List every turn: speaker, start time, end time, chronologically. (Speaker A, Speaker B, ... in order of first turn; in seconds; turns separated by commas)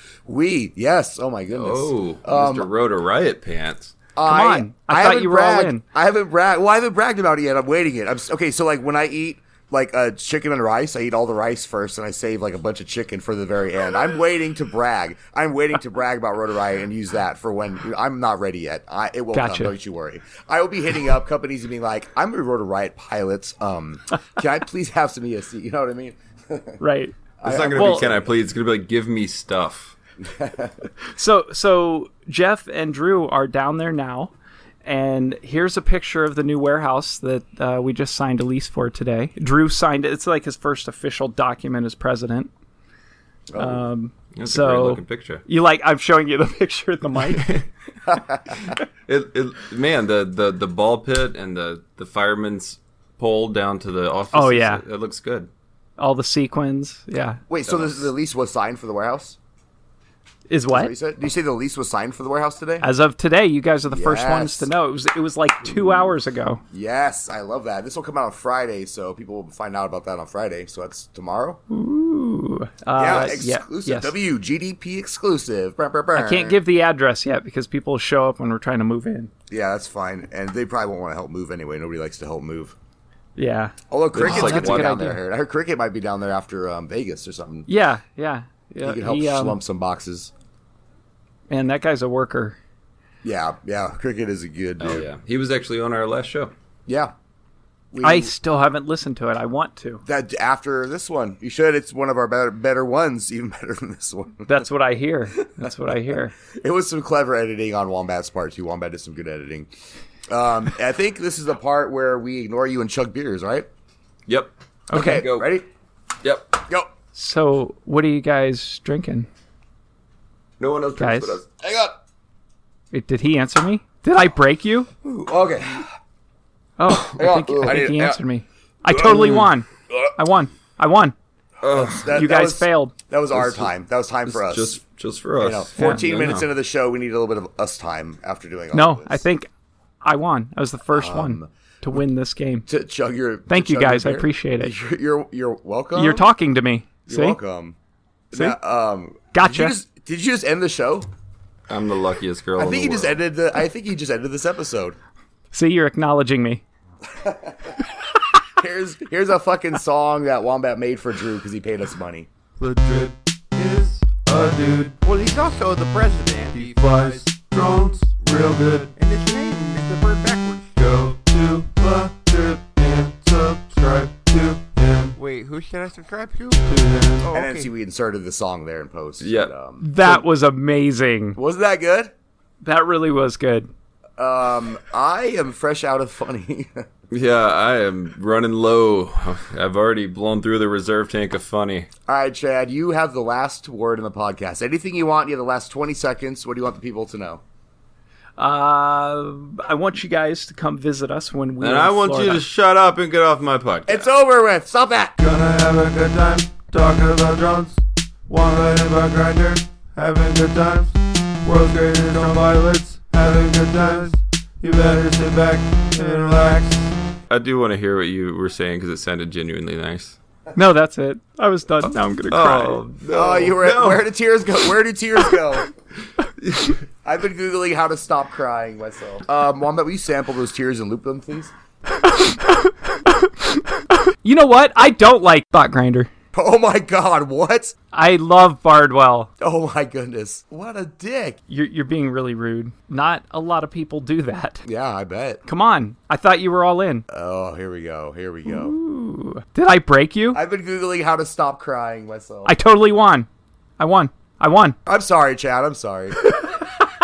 Speaker A: 0.2-2.7, Speaker B: 1.5-3.9, Speaker A: 4.2-26.8, Speaker C: 4.2-5.8, Speaker C: 19.3-19.7, Speaker C: 26.8-27.2, Speaker A: 27.4-28.3, Speaker B: 27.4-29.9, Speaker C: 27.7-28.0, Speaker A: 30.4-30.7, Speaker C: 31.1-34.3, Speaker C: 34.8-42.5, Speaker A: 43.5-43.8, Speaker C: 43.6-47.6, Speaker B: 44.4-45.4, Speaker B: 47.4-47.6, Speaker A: 48.1-48.5, Speaker B: 49.1-55.5, Speaker C: 54.3-54.8, Speaker C: 56.0-57.4, Speaker A: 57.5-59.4, Speaker B: 57.7-58.1, Speaker C: 60.5-60.9, Speaker A: 60.7-62.9, Speaker C: 62.8-66.6, Speaker A: 63.9-64.7, Speaker A: 66.7-71.6, Speaker C: 71.7-74.1, Speaker A: 73.0-76.6, Speaker C: 76.1-79.3, Speaker A: 79.5-82.7, Speaker C: 83.3-85.2, Speaker A: 83.9-87.7, Speaker B: 84.1-85.0, Speaker C: 87.7-89.6, Speaker A: 88.8-90.3, Speaker C: 91.5-92.6, Speaker A: 93.2-95.0, Speaker B: 94.8-96.5, Speaker A: 96.9-97.1, Speaker A: 97.9-98.3, Speaker C: 98.0-100.0, Speaker A: 100.0-104.6, Speaker C: 104.5-106.3, Speaker A: 106.5-109.7, Speaker A: 110.3-113.7, Speaker B: 114.3-115.5, Speaker C: 114.9-115.3, Speaker A: 114.9-115.7, Speaker B: 116.2-116.6, Speaker C: 117.1-119.3, Speaker B: 120.6-121.5, Speaker C: 121.0-121.4, Speaker A: 121.6-122.0, Speaker C: 122.9-124.9, Speaker A: 125.0-125.9, Speaker C: 126.8-131.1, Speaker A: 126.9-128.2, Speaker A: 129.0-129.4, Speaker B: 129.0-129.5, Speaker B: 131.6-132.1, Speaker A: 131.6-134.8, Speaker C: 132.1-132.9, Speaker B: 133.3-133.7, Speaker B: 134.2-136.5, Speaker A: 135.4-139.2, Speaker C: 135.8-136.0, Speaker C: 138.7-139.5, Speaker C: 140.0-142.7, Speaker A: 140.9-141.5, Speaker A: 142.7-146.3, Speaker C: 143.5-144.7, Speaker C: 145.9-147.4, Speaker A: 147.1-147.8, Speaker A: 148.3-151.1, Speaker C: 149.3-149.7, Speaker B: 151.7-153.2, Speaker A: 152.6-154.9, Speaker C: 155.5-156.6, Speaker A: 157.2-157.8, Speaker A: 158.6-162.3, Speaker D: 162.6-165.0, Speaker E: 165.0-167.3, Speaker D: 166.5-168.9, Speaker E: 168.9-170.7, Speaker D: 170.8-175.2, Speaker E: 175.2-177.7, Speaker D: 176.6-177.3, Speaker A: 177.3-180.2, Speaker B: 179.2-179.5, Speaker C: 179.8-181.4, Speaker A: 181.3-182.1, Speaker C: 182.6-183.7, Speaker A: 184.2-186.8, Speaker B: 187.1-191.9, Speaker A: 192.1-197.4, Speaker C: 198.4-202.4, Speaker B: 201.6-204.1, Speaker A: 203.9-205.1, Speaker D: 205.2-216.9, Speaker B: 217.3-220.2, Speaker C: 220.5-222.8, Speaker B: 221.8-224.0, Speaker A: 223.1-225.7, Speaker A: 227.0-231.5, Speaker C: 232.0-236.1, Speaker A: 236.3-237.7, Speaker C: 237.9-239.3, Speaker A: 239.4-241.4, Speaker C: 241.5-244.6, Speaker A: 244.6-245.4, Speaker C: 245.4-247.1, Speaker A: 247.1-248.8, Speaker C: 248.5-250.4, Speaker A: 250.3-252.5, Speaker C: 252.4-253.3, Speaker C: 253.8-254.8, Speaker A: 254.8-256.2